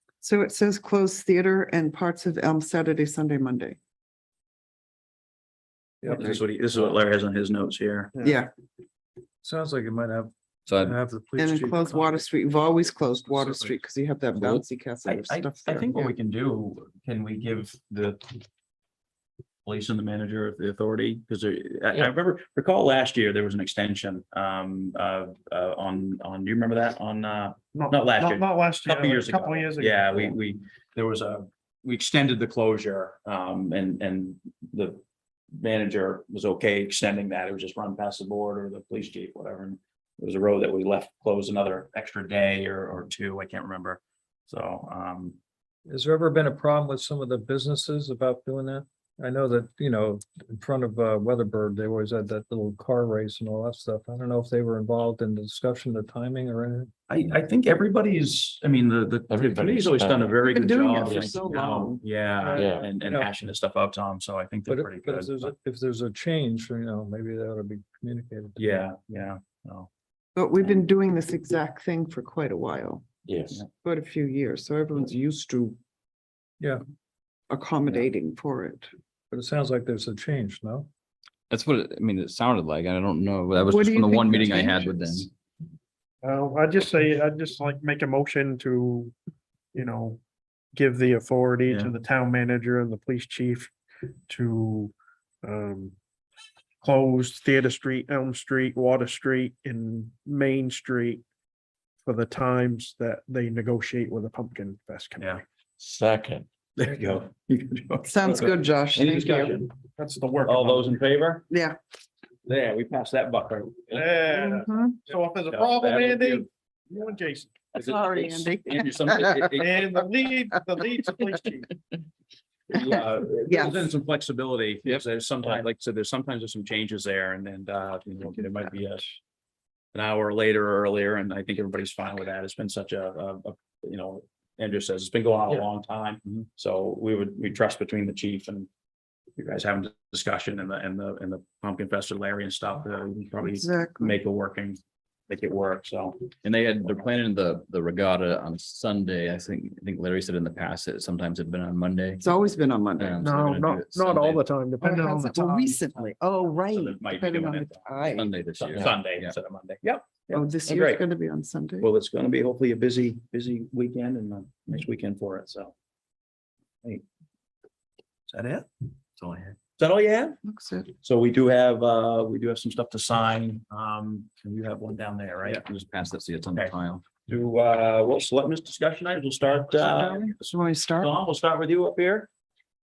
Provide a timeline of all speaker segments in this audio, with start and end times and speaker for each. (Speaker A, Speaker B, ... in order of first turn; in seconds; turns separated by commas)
Speaker A: 0.2-3.8, Speaker B: 6.0-6.3, Speaker C: 6.1-8.1, Speaker A: 8.2-8.5, Speaker B: 9.4-12.3, Speaker D: 10.7-10.9, Speaker A: 11.4-16.1, Speaker C: 15.0-18.4, Speaker C: 19.6-35.0, Speaker E: 27.7-30.4, Speaker C: 35.5-45.4, Speaker B: 45.9-56.9, Speaker C: 57.1-65.5, Speaker F: 59.3-61.3, Speaker A: 60.4-62.0, Speaker B: 62.4-63.3, Speaker F: 62.5-63.0, Speaker B: 64.7-68.8, Speaker C: 68.6-69.9, Speaker A: 70.3-73.1, Speaker F: 73.2-73.6, Speaker A: 73.6-75.8, Speaker A: 77.5-78.9, Speaker B: 79.3-80.9, Speaker D: 81.5-85.3, Speaker A: 83.6-85.3, Speaker E: 86.2-89.1, Speaker E: 89.7-90.2, Speaker E: 90.7-93.7, Speaker E: 94.3-94.9, Speaker E: 95.4-95.9, Speaker E: 96.8-101.2, Speaker E: 102.0-105.4, Speaker C: 105.2-105.4, Speaker F: 105.8-106.5, Speaker C: 106.8-109.7, Speaker A: 108.0-109.7, Speaker E: 110.0-111.0, Speaker C: 110.4-111.5, Speaker A: 111.5-111.8, Speaker C: 112.5-114.2, Speaker E: 113.9-117.6, Speaker A: 114.3-115.0, Speaker C: 115.4-116.5, Speaker C: 117.7-119.8, Speaker A: 117.8-119.6, Speaker E: 119.6-121.7, Speaker C: 122.7-129.2, Speaker A: 123.5-123.9, Speaker C: 129.9-138.7, Speaker C: 139.4-146.3, Speaker A: 143.4-144.2, Speaker D: 146.4-152.3, Speaker A: 152.2-153.2, Speaker D: 153.0-154.4, Speaker E: 153.2-156.1, Speaker A: 154.8-158.3, Speaker C: 156.7-157.9, Speaker D: 158.1-159.3, Speaker C: 158.6-161.0, Speaker A: 160.3-161.9, Speaker C: 161.8-165.7, Speaker C: 168.3-168.7, Speaker D: 169.2-169.6, Speaker C: 169.8-170.3, Speaker A: 170.4-170.9, Speaker C: 171.0-175.7, Speaker D: 175.4-177.0, Speaker C: 177.3-180.3, Speaker A: 179.7-181.1, Speaker C: 181.0-182.3